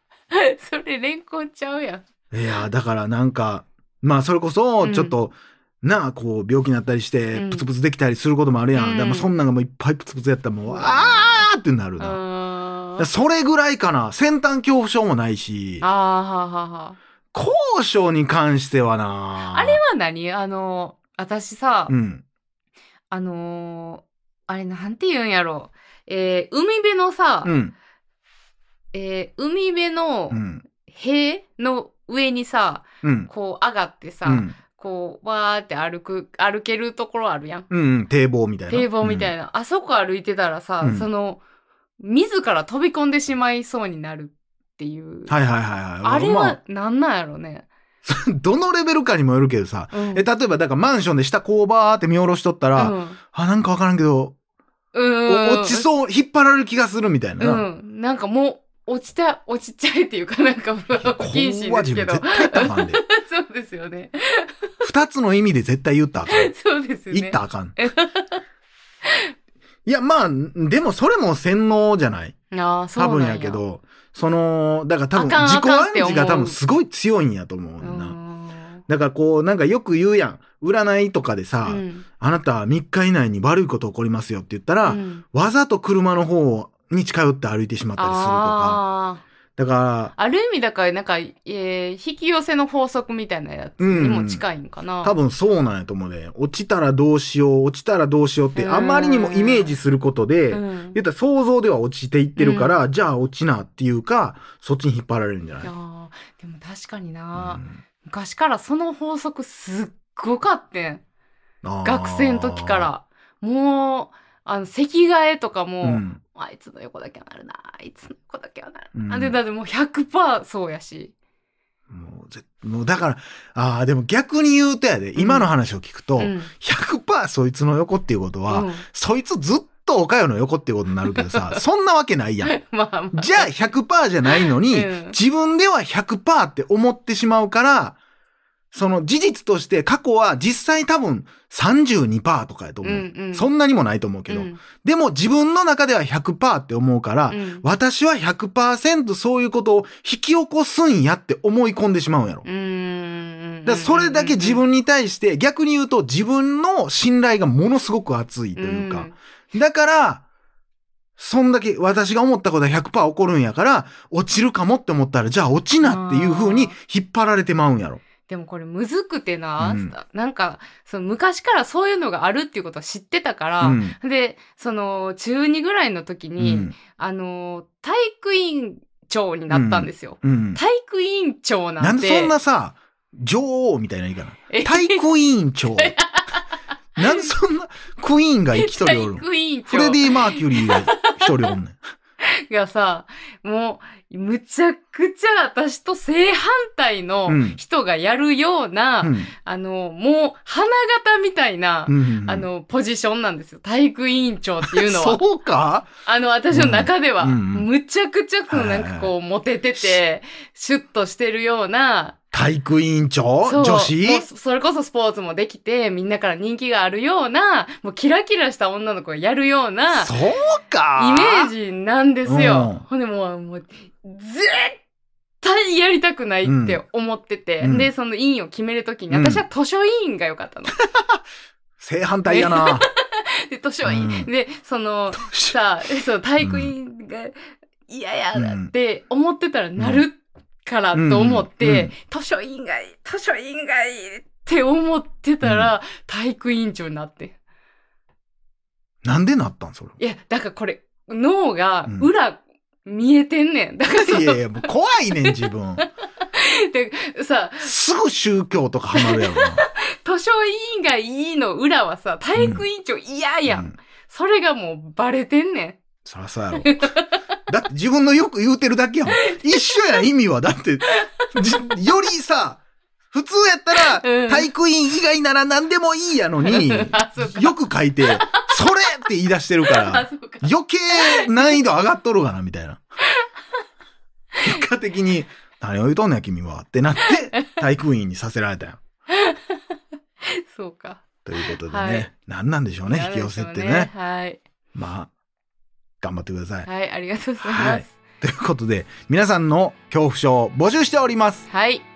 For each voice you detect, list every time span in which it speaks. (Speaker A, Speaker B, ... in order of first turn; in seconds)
Speaker A: 0.3-2.0, 4.8-5.2, 7.3-7.7, 8.7-9.3, 10.7-11.5, 12.0-13.1, 15.8-17.0, 19.4-21.9, 23.1-27.5, 28.9-37.7, 38.7-41.4, 42.0-45.3, 46.0-47.7, 49.9-50.2, 52.8-53.2, 54.9-55.9, 57.4-64.6, 66.3-68.4, 72.5-73.6, 75.1-76.6, 77.8-78.8, 81.6-82.0, 84.8-85.2, 88.0-89.2, 90.2-95.2, 98.5-99.8, 100.5-101.0, 102.4-102.7, 105.6-111.0, 111.8-121.1, 125.2-125.5, 126.2-126.5, 128.5-128.8, 131.0-131.6, 132.4-133.5, 134.2-135.2, 142.8-143.5, 144.3-144.6, 147.3-147.6, 152.4-154.6, 158.6-159.2, 165.8-166.7, 168.3-182.3, 184.5-185.0, 185.8-187.3, 188.6-191.5, 192.2-205.2, 206.0-212.2, 213.4-220.2, 220.9-224.8, 225.4-230.8, 232.3-247.3, 250.0-254.7, 255.2-257.7, 258.9-265.8, 266.6-267.2, 269.1-269.6, 270.9-271.3, 273.8-274.5, 276.4-278.5, 279.6-281.5, 287.0-287.3, 289.1-289.6, 290.2-292.1, 292.9-294.4, 296.6-297.9, 301.5-301.8
Speaker B: 2.3-12.2, 13.0-15.8, 17.3-19.8, 21.9-22.2, 27.4-27.7, 30.3-30.6, 33.0-33.3, 34.2-34.5, 37.7-39.3, 40.8-41.1, 45.3-46.6, 48.0-54.3, 55.3-57.6, 60.9-63.0, 64.8-66.5, 67.1-67.8, 69.8-72.3, 73.0-78.2, 78.9-88.8, 89.6-90.1, 93.8-94.4, 95.0-105.7, 107.3-107.7, 111.6-112.9, 115.8-116.2, 118.9-119.4, 121.9-132.5, 133.1-138.0, 138.7-152.4, 153.7-160.2, 161.2-168.0, 169.6-169.9, 173.6-173.9, 176.4-176.7, 179.5-180.6, 181.8-186.0, 187.0-191.8, 197.3-197.6, 199.0-199.3, 201.9-202.5, 204.6-205.9, 206.5-207.7, 208.5-209.1, 212.3-214.2, 219.9-221.5, 222.2-222.8, 226.4-226.8, 227.6-227.9, 229.1-229.4, 231.8-232.9, 233.8-234.3, 235.1-235.6, 236.4-236.7, 238.3-238.7, 239.8-240.0, 240.9-241.9, 245.4-245.7, 249.0-250.0, 253.9-255.8, 257.6-259.6, 262.4-262.6, 263.5-263.7, 266.1-266.8, 267.5-272.6, 273.1-282.8, 284.4-288.8, 291.2-293.9, 294.7-295.1, 296.0-296.7, 297.4-301.4